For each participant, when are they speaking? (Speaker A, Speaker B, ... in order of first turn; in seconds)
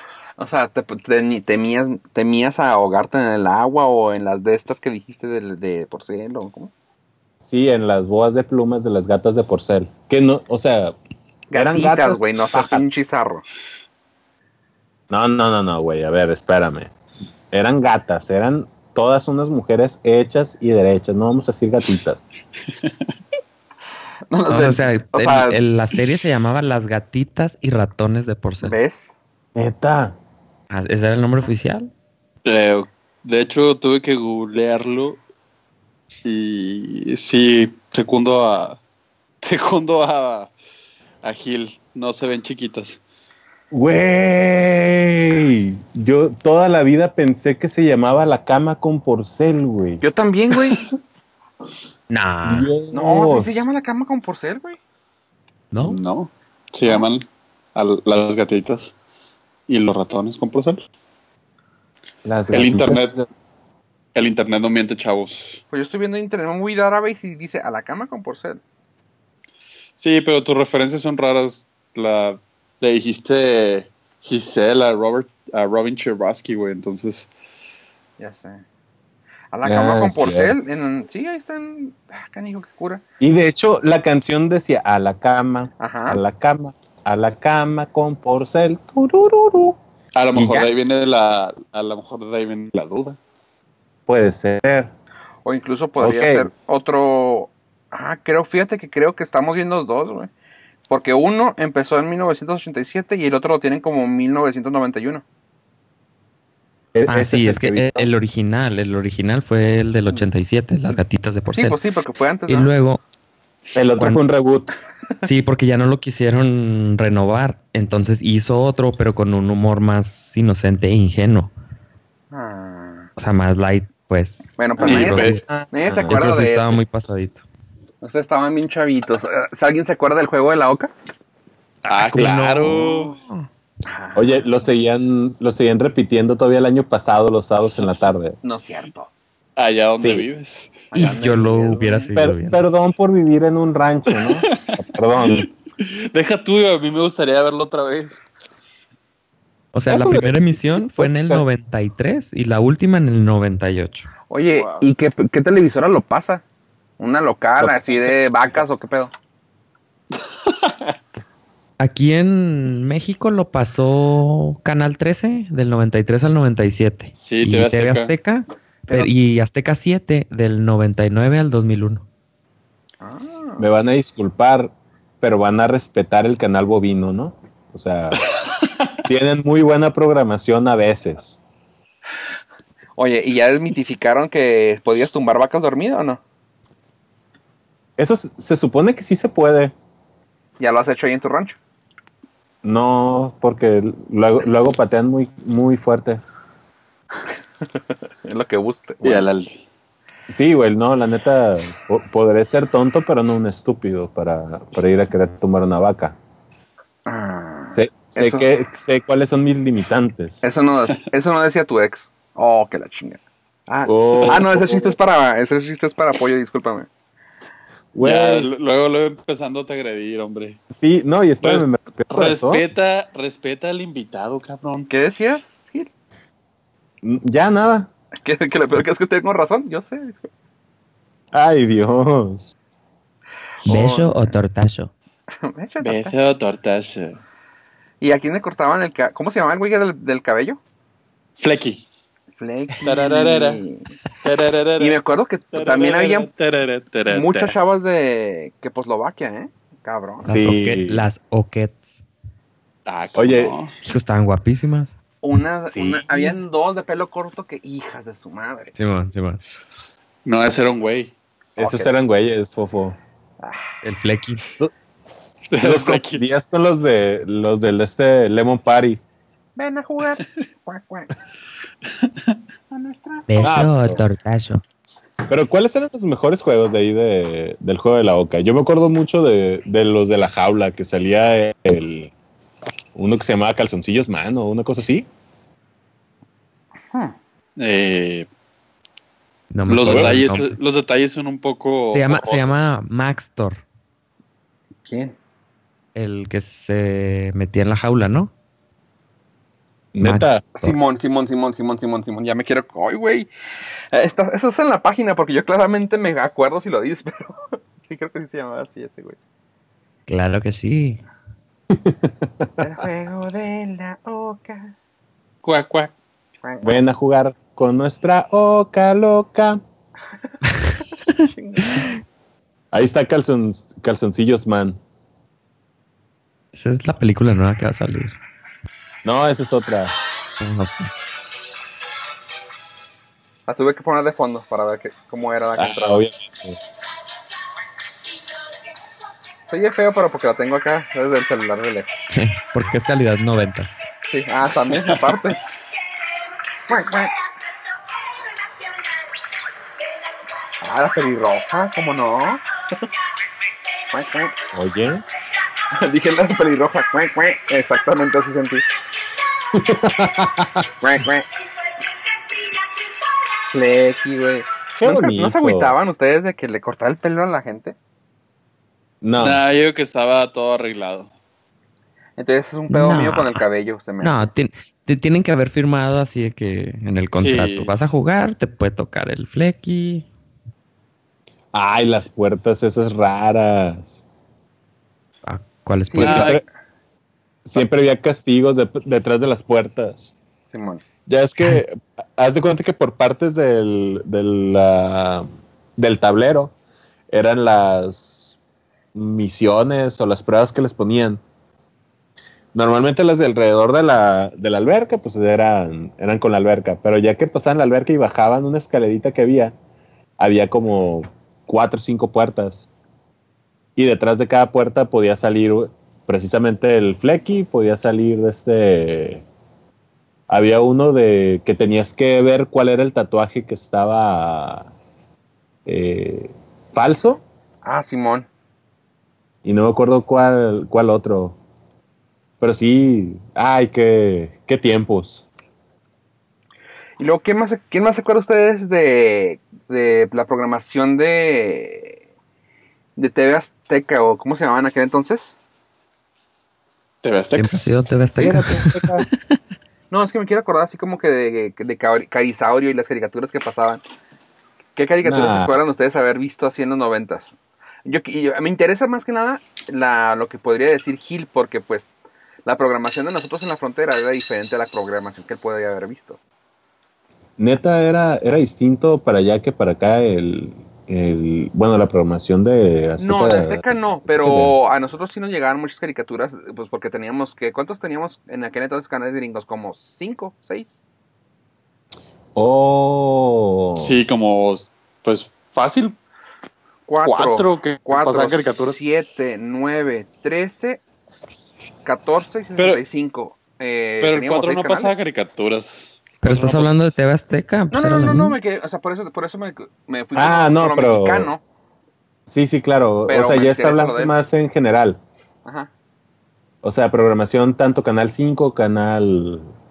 Speaker A: 0.4-6.7, 11.5-13.4, 24.3-25.6, 28.6-29.1, 50.0-50.8, 52.9-54.8, 65.7-68.6, 78.2-78.6, 79.5-83.0, 85.8-86.2, 95.5-100.3, 100.9-105.2, 111.5-112.7, 122.3-123.1, 124.6-126.8, 128.0-130.9, 133.8-134.5, 138.4-139.1, 140.9-142.1, 154.3-156.4, 157.0-159.1, 173.0-173.7, 183.0-186.2, 190.6-191.6, 198.2-199.3, 207.1-208.5, 210.4-216.9, 224.9-225.9, 228.2-230.3, 233.7-234.4, 235.4-236.2, 238.0-240.6, 242.4-243.9, 244.8-246.3, 247.1-250.3, 255.2-258.7, 261.6-261.9, 263.4-263.8, 269.6-271.1, 272.7-273.7, 294.9-295.2, 300.6-303.3, 303.9-309.2, 312.6-314.7, 316.4-316.8, 321.3-321.9, 333.5-336.1, 339.5-341.9, 344.0-345.4, 346.7-347.2, 350.6-352.4, 353.9-354.4, 355.7-358.6, 360.8-361.3, 363.5-367.8, 372.2-374.3, 385.9-386.4, 390.5-390.8, 427.6-428.3, 437.0-442.0, 443.0-445.4, 449.9-453.8, 454.8-461.9, 462.4-466.2, 473.0-480.7, 486.9-490.8, 491.9-495.0, 497.7-501.4, 503.1-504.1, 505.4-505.7
Speaker B: 7.5-11.0, 11.5-12.8, 15.1-16.9, 17.5-22.2, 29.6-30.2, 43.7-50.0, 52.4-53.5, 62.2-63.3, 79.6-80.6, 83.2-89.8, 90.3-90.7, 94.1-94.9, 96.0-96.5, 106.9-108.1, 113.8-114.7, 124.8-126.2, 134.2-138.4, 140.0-140.3, 142.2-145.5, 149.9-151.4, 173.6-178.2, 179.1-181.4, 188.0-189.7, 192.6-196.2, 200.3-206.2, 207.7-210.4, 213.9-215.0, 217.9-218.5, 220.7-222.6, 227.0-227.9, 231.3-232.5, 250.2-251.1, 253.2-253.6, 255.7-256.3, 261.6-263.0, 265.6-269.0, 273.4-274.0, 275.3-282.1, 282.9-285.1, 289.8-290.2, 299.9-300.4, 311.7-312.5, 316.6-319.6, 322.7-324.8, 329.0-329.9, 335.6-336.6, 354.5-355.0, 359.5-360.7, 364.8-365.8, 369.0-369.4, 381.5-384.0, 386.0-386.4, 387.5-390.1, 391.1-395.3, 395.8-396.5, 397.1-398.4, 398.9-401.2, 402.5-409.5, 410.2-412.6, 413.8-419.2, 420.3-424.7, 425.7-427.2, 429.4-431.4, 432.4-435.2, 448.1-449.1, 455.0-455.5, 467.4-474.6, 482.4-484.0, 500.1-501.3, 502.3-505.0, 506.6-509.5
Speaker C: 24.5-28.8, 30.7-31.9, 52.1-52.7, 55.7-56.0, 107.1-111.8, 112.5-113.0, 115.2-121.5, 123.2-125.4, 126.1-127.4, 131.9-133.5, 141.0-142.6, 149.7-154.1, 161.8-172.1, 233.7-234.9, 250.2-251.9, 253.8-254.9, 258.8-259.4, 263.8-264.4, 273.3-274.6, 289.5-290.6, 291.9-293.6, 295.9-298.3, 300.0-300.8, 310.1-311.0, 326.5-328.2, 330.4-330.9, 342.1-343.8, 372.7-373.4, 374.0-380.1, 385.3-386.4, 447.3-448.9, 496.2-498.4
Speaker D: 32.5-35.2, 36.2-38.8, 39.4-40.5, 41.2-43.0, 55.8-58.9, 59.7-60.8, 62.5-63.2, 64.2-65.6, 70.0-77.3, 90.2-93.2, 124.8-125.4, 131.8-133.2, 139.6-141.1, 144.1-148.2, 154.6-154.8, 160.5-160.7, 167.2-168.1, 199.0-199.6, 218.0-220.6, 221.4-224.9, 235.8-237.2, 241.4-241.8, 242.8-243.6, 244.2-245.0, 245.5-247.6, 252.9-253.7, 260.2-261.1, 265.5-266.2, 287.6-288.3, 289.7-292.7, 315.4-315.9, 369.2-371.1, 377.2-377.7, 386.0-386.4, 447.0-447.6, 483.8-486.0, 487.0-488.8, 492.6-492.8, 494.0-496.7